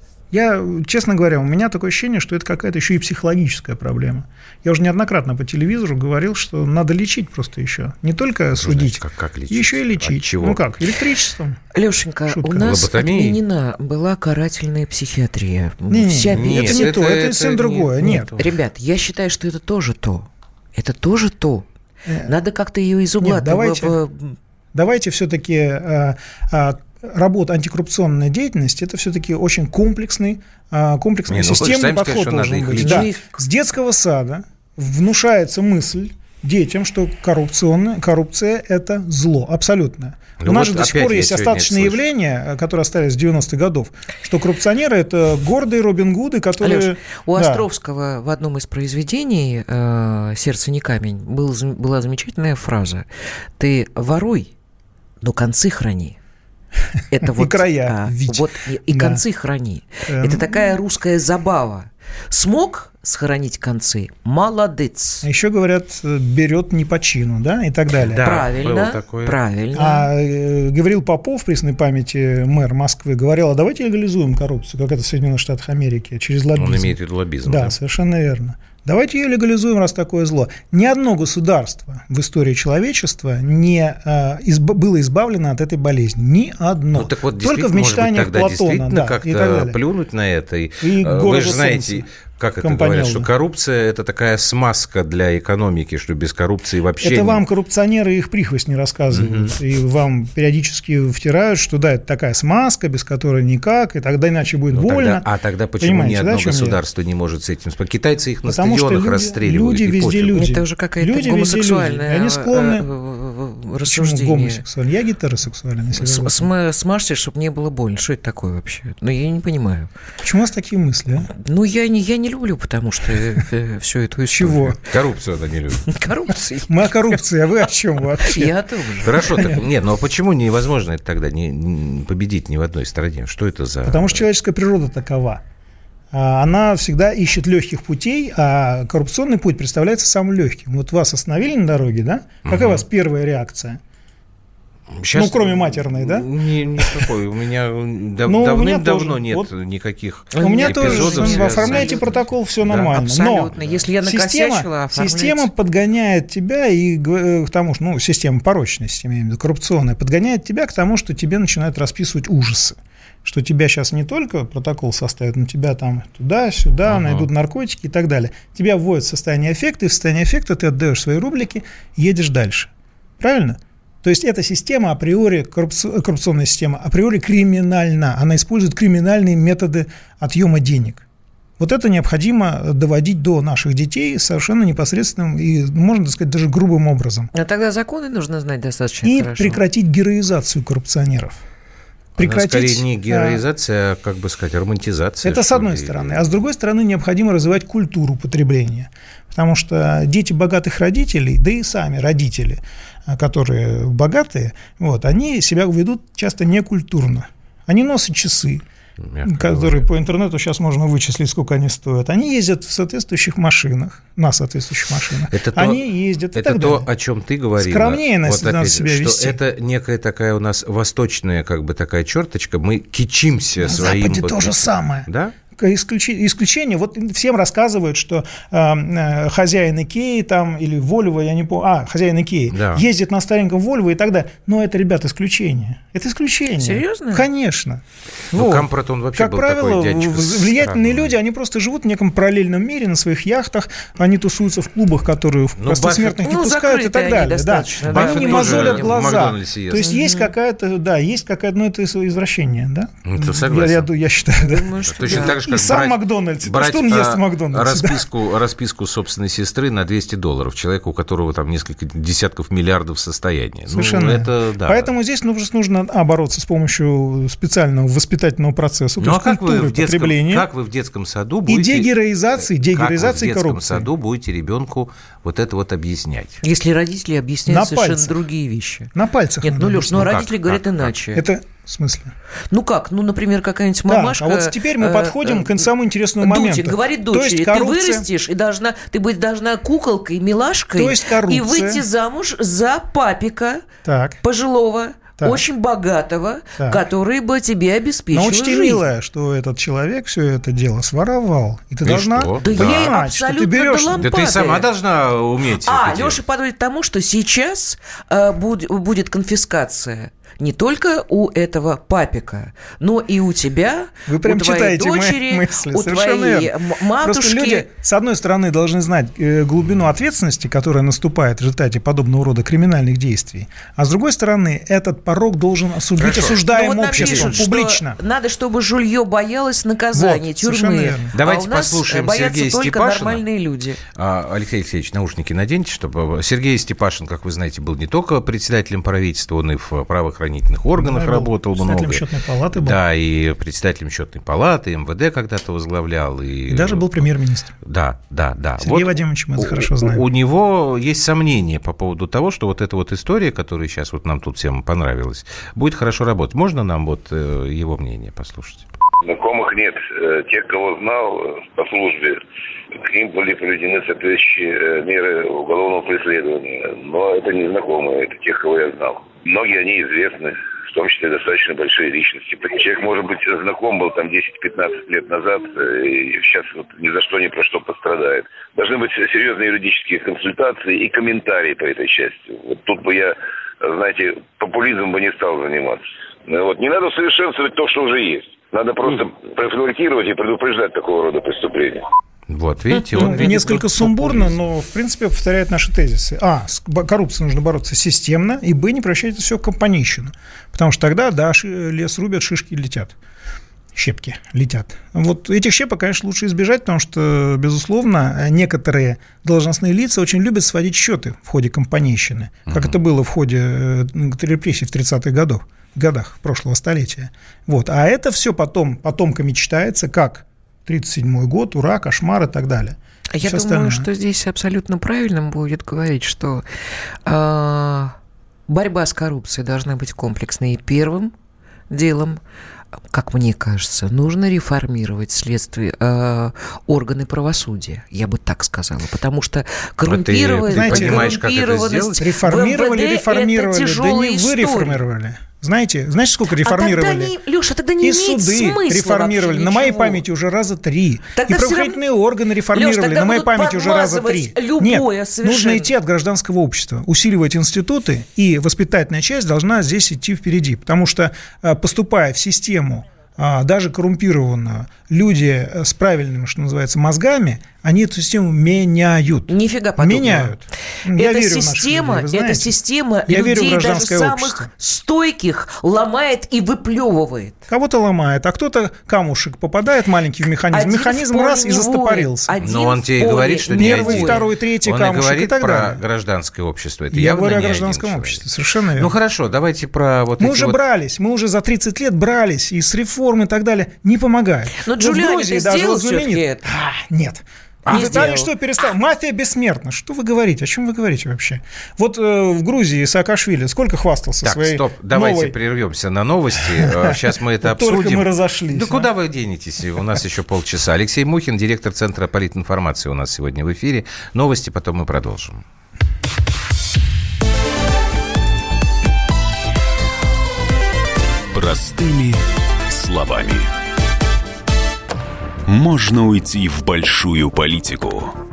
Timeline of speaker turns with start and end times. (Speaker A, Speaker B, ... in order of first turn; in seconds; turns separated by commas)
Speaker A: 0.3-11.6, Speaker B: 8.6-10.7, Speaker C: 11.7-16.9, Speaker A: 12.3-12.7, Speaker B: 12.6-13.4, Speaker A: 15.9-18.3, Speaker B: 16.3-18.5, Speaker C: 18.4-21.6, Speaker A: 22.1-22.3, Speaker C: 22.2-24.4, Speaker A: 23.2-24.0, Speaker A: 24.7-47.6, Speaker B: 31.3-33.1, Speaker C: 32.8-33.2, Speaker B: 40.4-42.0, Speaker C: 46.6-54.5, Speaker C: 55.2-56.1, Speaker C: 57.1-65.3, Speaker A: 57.3-59.2, Speaker A: 60.1-60.7, Speaker A: 65.2-68.3, Speaker B: 68.0-69.4, Speaker C: 68.2-70.1, Speaker A: 69.7-89.8, Speaker B: 76.5-77.7, Speaker B: 86.9-97.4, Speaker A: 90.8-92.0, Speaker A: 92.6-93.3, Speaker A: 97.0-105.2, Speaker B: 99.1-99.5, Speaker B: 104.7-110.5, Speaker A: 105.8-106.8, Speaker A: 108.4-112.8, Speaker C: 110.3-114.6, Speaker A: 113.8-116.5, Speaker C: 115.9-119.9, Speaker A: 120.2-121.3, Speaker C: 121.3-124.7, Speaker A: 124.3-124.8, Speaker B: 124.8-125.9, Speaker C: 125.9-127.2, Speaker A: 126.7-129.6, Speaker C: 128.2-129.2, Speaker B: 129.0-134.2, Speaker A: 133.8-135.4, Speaker A: 136.1-143.8, Speaker B: 142.4-142.8, Speaker B: 144.9-152.9, Speaker A: 145.1-147.1, Speaker A: 148.2-149.5, Speaker C: 150.3-152.2, Speaker A: 150.4-181.0, Speaker C: 152.8-155.5, Speaker B: 166.8-167.3, Speaker A: 181.6-187.3, Speaker C: 187.3-189.6, Speaker A: 189.0-191.4, Speaker A: 192.2-193.4, Speaker B: 192.2-196.3, Speaker A: 195.2-208.6, Speaker B: 209.0-209.8, Speaker A: 209.2-216.9, Speaker B: 215.3-215.8, Speaker B: 216.3-225.3, Speaker A: 217.6-219.4, Speaker A: 223.6-258.0, Speaker B: 232.5-232.8, Speaker C: 236.6-237.3, Speaker B: 238.3-241.1, Speaker B: 245.6-246.2, Speaker C: 246.2-249.0, Speaker B: 247.9-249.9, Speaker C: 249.8-250.3, Speaker B: 253.0-253.9, Speaker C: 254.4-255.4, Speaker B: 254.9-264.9, Speaker A: 263.7-270.4, Speaker B: 269.0-276.4, Speaker A: 271.5-273.9, Speaker C: 276.4-281.2, Speaker A: 277.4-278.1, Speaker A: 278.9-280.1, Speaker B: 279.9-280.9, Speaker A: 281.1-282.1, Speaker C: 282.5-285.7, Speaker A: 283.9-288.1, Speaker C: 286.2-293.6, Speaker A: 290.7-291.8, Speaker A: 293.8-294.2, Speaker C: 294.2-298.8, Speaker A: 298.1-304.0, Speaker B: 301.8-302.9, Speaker C: 302.4-304.6, Speaker B: 303.9-306.2, Speaker C: 305.6-317.7, Speaker A: 314.1-328.0, Speaker B: 326.0-326.4, Speaker C: 326.4-333.8, Speaker B: 326.9-327.4, Speaker A: 329.9-331.1, Speaker B: 331.1-333.2, Speaker B: 333.9-347.0, Speaker A: 340.8-342.8, Speaker A: 346.5-347.5, Speaker B: 347.6-358.7, Speaker A: 348.6-350.0, Speaker D: 359.0-362.2, Speaker D: 362.7-391.8, Speaker B: 392.3-394.3, Speaker C: 392.8-393.6, Speaker A: 392.9-402.9, Speaker A: 403.7-423.9, Speaker B: 412.5-412.8, Speaker C: 423.1-426.4, Speaker C: 427.1-427.9, Speaker C: 428.5-431.1, Speaker C: 431.7-432.2, Speaker C: 432.9-444.8, Speaker B: 439.9-442.0, Speaker A: 440.5-441.1, Speaker A: 442.0-447.1, Speaker C: 446.4-450.0, Speaker A: 447.8-472.6, Speaker C: 451.1-451.8, Speaker C: 452.5-455.7, Speaker C: 469.3-470.3, Speaker C: 470.9-477.4, Speaker A: 473.1-474.5, Speaker A: 477.5-482.3, Speaker C: 480.5-484.2, Speaker B: 482.4-488.2, Speaker A: 483.5-485.8, Speaker A: 486.9-488.9, Speaker B: 488.8-490.6, Speaker A: 490.2-505.3, Speaker C: 494.6-496.5, Speaker B: 497.6-498.2, Speaker C: 497.7-498.2, Speaker B: 504.2-515.4, Speaker A: 506.5-508.9, Speaker E: 521.3-523.5, Speaker E: 525.5-528.1